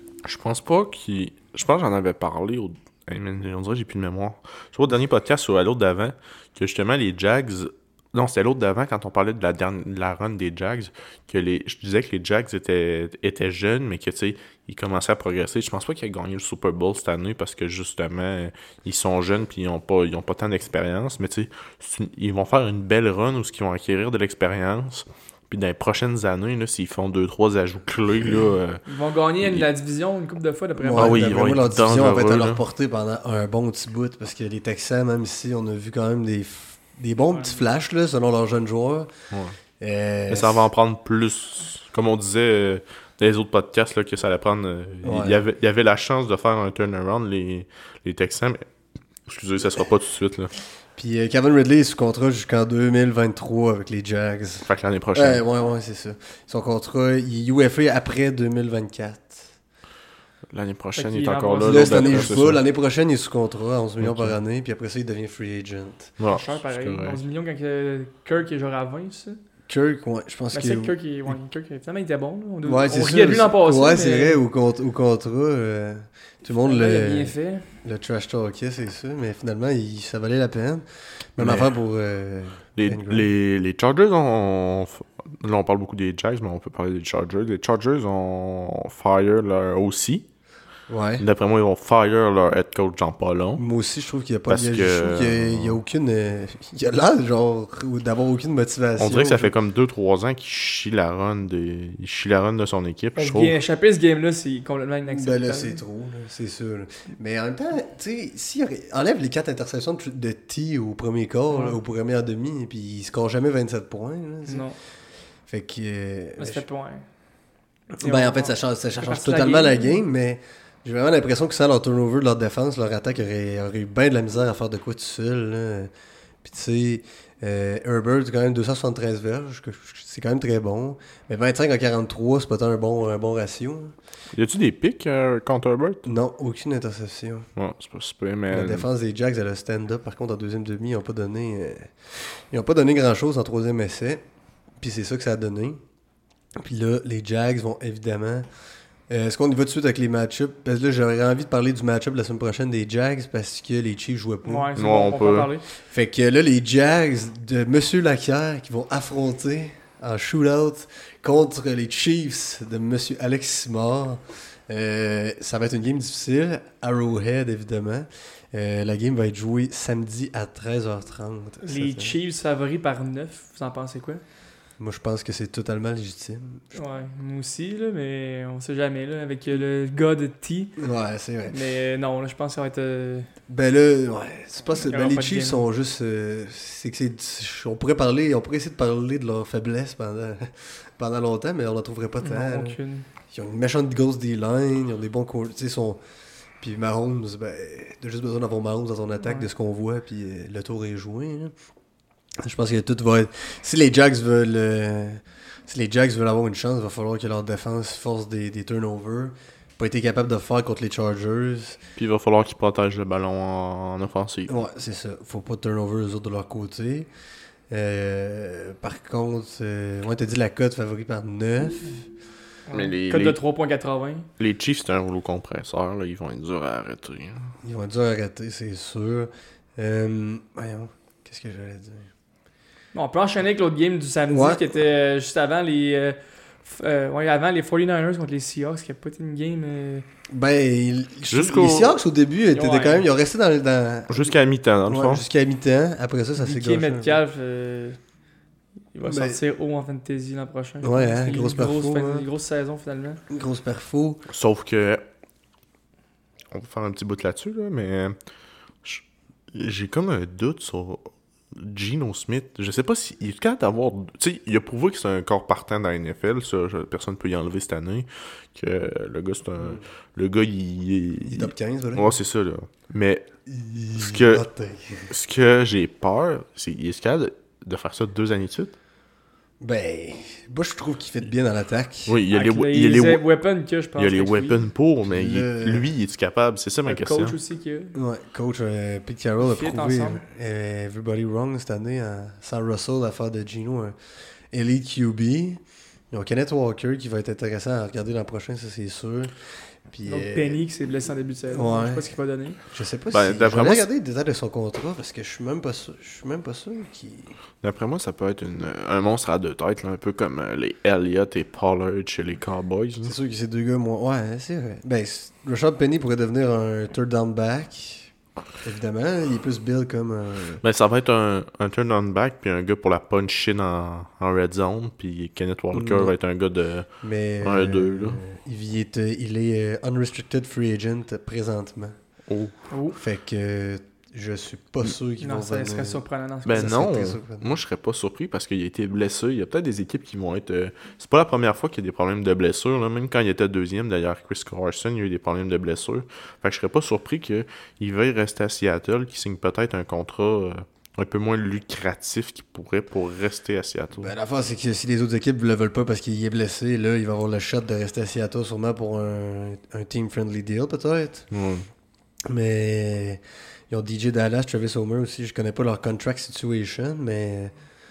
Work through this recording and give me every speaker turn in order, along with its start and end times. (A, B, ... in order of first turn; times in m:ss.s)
0:00.2-0:28.8 A
0:28.8-0:31.4 B
0:29.4-0:29.7 A
0:30.8-0:39.1 C
0:30.9-0:32.6 A
0:37.3-0:37.6 B
0:39.8-0:40.7 C
0:40.3-0:48.6 A
0:45.0-0:45.4 C
0:49.3-0:50.5 A
0:51.0-0:59.5 C
0:54.6-0:55.4 A
1:00.5-1:02.6 A
1:01.0-1:02.3 B
1:01.6-1:06.1 C
1:04.0-1:04.4 A
1:06.2-1:07.2 A
1:06.3-1:09.4 B
1:09.7-1:10.9 C
1:10.5-1:14.4 B
1:12.6-1:20.8 C
1:16.6-1:17.6 B
1:21.4-1:23.3 C
1:21.4-1:21.7 A
1:22.8-1:30.2 A
1:30.9-1:31.2 C
1:31.2-1:33.6 A
1:33.6-1:39.5 C
1:34.5-1:35.8 A
1:39.0-1:43.6 A
1:43.2-1:45.8 B
1:45.1-1:54.6 C
1:51.5-1:51.8 B
1:54.5-1:54.8 B
1:55.5-1:56.6 C
1:56.4-1:57.0 B
1:58.0-2:00.0 B
1:58.0-2:05.9 C
2:06.4-2:13.9 C
2:14.3-2:16.0 A
2:16.0-2:17.5 C
2:17.6-2:18.8 A
2:18.5-2:24.2 C
2:24.8-2:25.8 C
2:26.6-2:28.4 C
2:29.1-2:34.7 C
2:34.4-2:35.6 B
2:34.8-2:35.5 A
2:35.8-2:52.1 C
2:51.6-2:54.2 B
2:54.8-2:56.7 C
2:56.7-3:00.7 B
3:00.8-3:01.5 C
3:01.5-3:03.3 B
3:03.5-3:12.8 C
3:04.8-3:05.6 B
3:12.2-3:13.0 B
3:13.3-3:16.0 C
3:16.6-3:21.5 C
3:19.2-3:19.5 B
3:22.4-3:31.8 C
3:32.0-3:34.5 A
3:34.5-3:37.1 C
3:37.7-3:42.1 C
3:42.7-3:44.3 B
3:42.7-3:43.4 A
3:44.4-3:47.5 A
3:47.6-3:52.1 C
3:52.9-4:00.0 B
3:54.3-3:54.6 C
4:00.3-4:04.3 C
4:01.3-4:02.0 A
4:02.5-4:03.0 B
4:04.1-4:05.2 A
4:04.9-4:07.2 C
4:06.4-4:08.0 B
4:08.9-4:13.2 B
4:09.1-4:09.4 C
4:10.8-4:12.2 C
4:13.3-4:14.2 C
4:14.3-4:15.0 A
4:16.5-4:18.1 A
4:18.8-4:33.3 A
4:31.2-4:32.2 C
4:33.5-4:35.1 C
4:34.0-4:34.4 A
4:35.1-4:38.7 A
4:39.6-4:42.2 C
4:42.1-4:43.2 A
4:42.3-4:44.6 B
4:44.0-4:47.4 A
4:45.0-4:45.9 C
4:46.9-4:48.0 B
4:47.9-4:53.9 C
4:49.4-4:50.2 B
4:54.5-4:59.3 C
4:59.9-5:00.6 C
5:00.0-5:02.6 B
5:01.5-5:02.1 C
5:02.7-5:07.4 C
5:03.1-5:03.9 A
5:07.6-5:13.1 A
5:13.0-5:18.1 C
5:18.6-5:20.6 C
5:20.6-5:26.9 A
5:25.7-5:26.1 C
5:27.0-5:32.0 C
5:27.4-5:28.2 A
5:32.3-5:32.6 A
5:32.7-5:33.0 B
5:33.0-5:37.6 C
5:35.2-5:36.8 B
5:36.4-5:54.1 A
5:54.0-6:01.3 C
6:01.3-6:01.6 A
6:02.3-6:07.5 C